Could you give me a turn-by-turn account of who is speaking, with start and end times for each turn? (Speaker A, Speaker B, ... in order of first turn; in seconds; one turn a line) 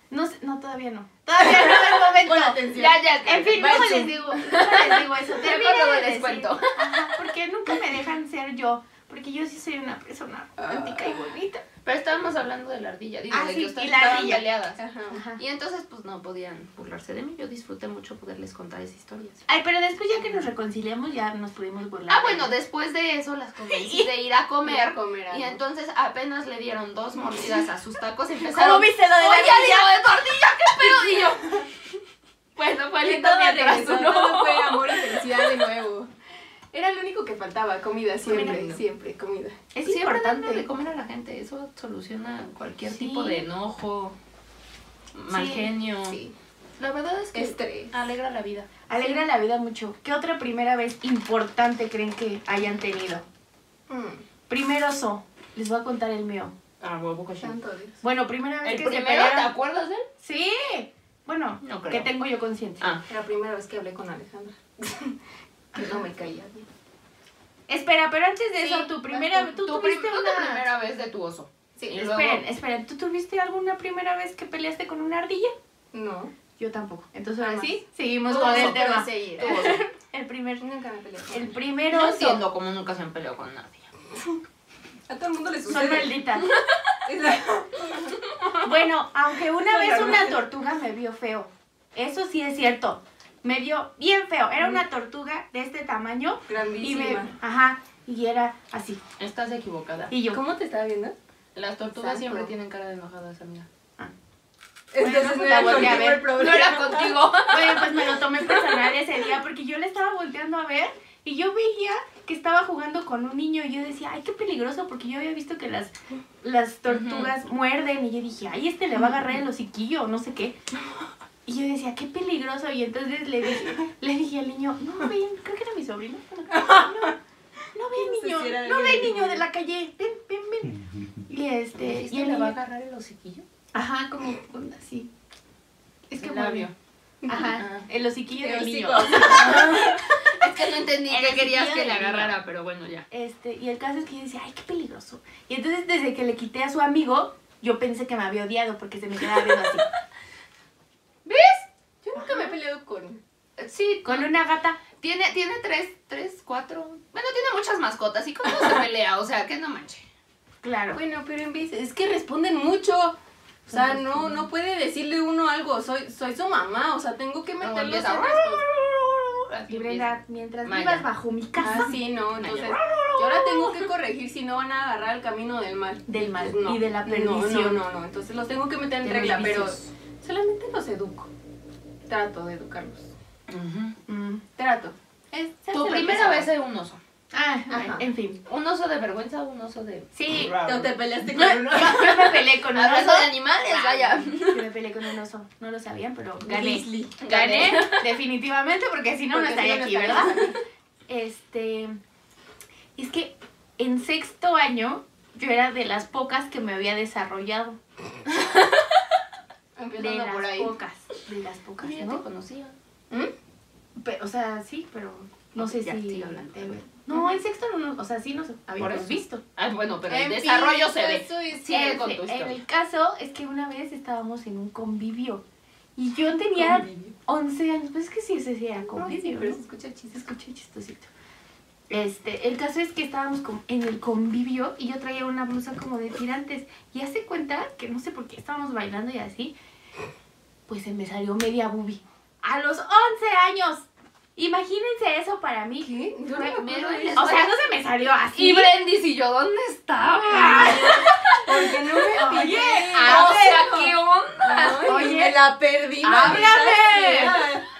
Speaker A: 0.1-2.6
Speaker B: 1.6-3.0
Speaker C: 2.7-7.0
Speaker A: 3.2-11.6
Speaker B: 3.6-4.1
Speaker B: 10.6-11.2
Speaker C: 11.8-14.8
Speaker A: 13.3-14.4
Speaker B: 14.8-15.2
Speaker A: 15.1-15.4
Speaker C: 15.4-19.4
Speaker A: 19.5-22.5
Speaker C: 22.1-31.7
Speaker A: 23.7-24.1
Speaker B: 24.6-25.6
Speaker A: 28.4-30.2
Speaker C: 32.6-34.7
Speaker B: 33.0-36.1
Speaker A: 33.1-33.9
Speaker B: 36.7-39.6
Speaker A: 38.3-38.7
Speaker C: 38.3-38.8
Speaker A: 39.7-40.6
Speaker C: 39.8-44.2
Speaker A: 42.9-43.5
Speaker C: 45.1-46.2
Speaker A: 45.3-45.7
Speaker B: 46.1-46.4
Speaker C: 46.8-48.7
Speaker B: 47.3-47.9
Speaker A: 48.9-53.2
Speaker B: 53.9-54.2
Speaker A: 54.5-56.5
Speaker C: 56.8-57.5
Speaker B: 57.4-58.0
Speaker A: 58.0-59.5
Speaker C: 58.6-60.0
Speaker A: 60.2-62.9
Speaker C: 61.6-62.1
Speaker B: 63.1-65.2
Speaker B: 65.7-66.7
Speaker A: 67.7-70.7
Speaker B: 68.6-69.5
Speaker C: 69.5-72.4
Speaker B: 71.8-72.0
Speaker A: 71.9-75.5
Speaker B: 75.9-76.3
Speaker A: 76.6-80.7
Speaker B: 77.4-79.8
Speaker C: 78.3-79.8
Speaker B: 80.6-81.5
Speaker A: 81.3-82.4
Speaker C: 81.9-83.9
Speaker B: 85.1-86.1
Speaker A: 85.7-86.5
Speaker B: 87.0-88.2
Speaker A: 88.6-99.0
Speaker B: 89.7-90.4
Speaker B: 96.5-97.3
Speaker C: 99.2-100.1
Speaker A: 100.1-100.4
Speaker B: 100.3-101.2
Speaker C: 101.5-103.7
Speaker B: 101.9-102.5
Speaker B: 104.9-107.3
Speaker A: 105.0-106.3
Speaker C: 105.7-108.2
Speaker A: 107.5-120.6
Speaker C: 116.9-117.3
Speaker A: 121.5-127.2
Speaker B: 126.5-127.0
Speaker A: 127.7-132.6
Speaker B: 127.9-129.4
Speaker C: 131.8-133.4
Speaker A: 133.7-135.1
Speaker A: 136.1-136.7
Speaker C: 136.2-136.7
Speaker B: 137.2-137.6
Speaker A: 137.3-140.1
Speaker C: 137.3-137.9
Speaker B: 138.3-140.0
Speaker C: 139.2-143.1
Speaker A: 141.1-142.4
Speaker A: 143.1-149.9
Speaker C: 151.3-151.7
Speaker B: 152.0-153.2
Speaker A: 152.2-152.4
Speaker C: 153.6-154.4
Speaker A: 154.1-154.8
Speaker C: 155.0-160.1
Speaker A: 160.6-161.0
Speaker B: 160.9-168.6
Speaker A: 163.7-164.4
Speaker C: 167.6-171.1
Speaker A: 169.7-172.0
Speaker B: 171.6-181.3
Speaker C: 172.3-173.9
Speaker A: 176.1-177.8
Speaker A: 179.0-179.9
Speaker B: 182.1-183.1
Speaker C: 183.5-184.0
Speaker A: 184.1-184.4
Speaker B: 184.6-186.5
Speaker C: 185.7-187.0
Speaker A: 187.3-188.4
Speaker B: 187.7-188.1
Speaker C: 188.5-190.9
Speaker A: 190.1-190.5
Speaker B: 190.6-192.3
Speaker A: 191.3-200.3
Speaker C: 192.7-194.6
Speaker B: 196.4-197.2
Speaker C: 197.2-198.1
Speaker B: 199.3-200.6
Speaker A: 201.1-202.0
Speaker A: 203.0-207.8
Speaker B: 209.8-210.7
Speaker A: 209.9-212.2
Speaker C: 211.8-212.8
Speaker A: 214.0-219.4
Speaker C: 215.6-216.8
Speaker C: 218.8-222.6
Speaker B: 220.1-221.9
Speaker A: 221.7-225.4
Speaker A: 226.0-229.6
Speaker B: 226.5-227.1
Speaker B: 228.9-230.3
Speaker A: 230.1-231.1
Speaker A: 231.9-239.5
Speaker A: 240.7-246.6
Speaker B: 245.8-247.4
Speaker C: 246.4-247.7
Speaker A: 247.2-248.8
Speaker C: 248.3-251.4
Speaker B: 250.3-257.6
Speaker A: 250.4-251.5
Speaker A: 252.1-253.6
Speaker C: 253.0-255.1
Speaker A: 254.8-255.4
Speaker A: 256.0-257.4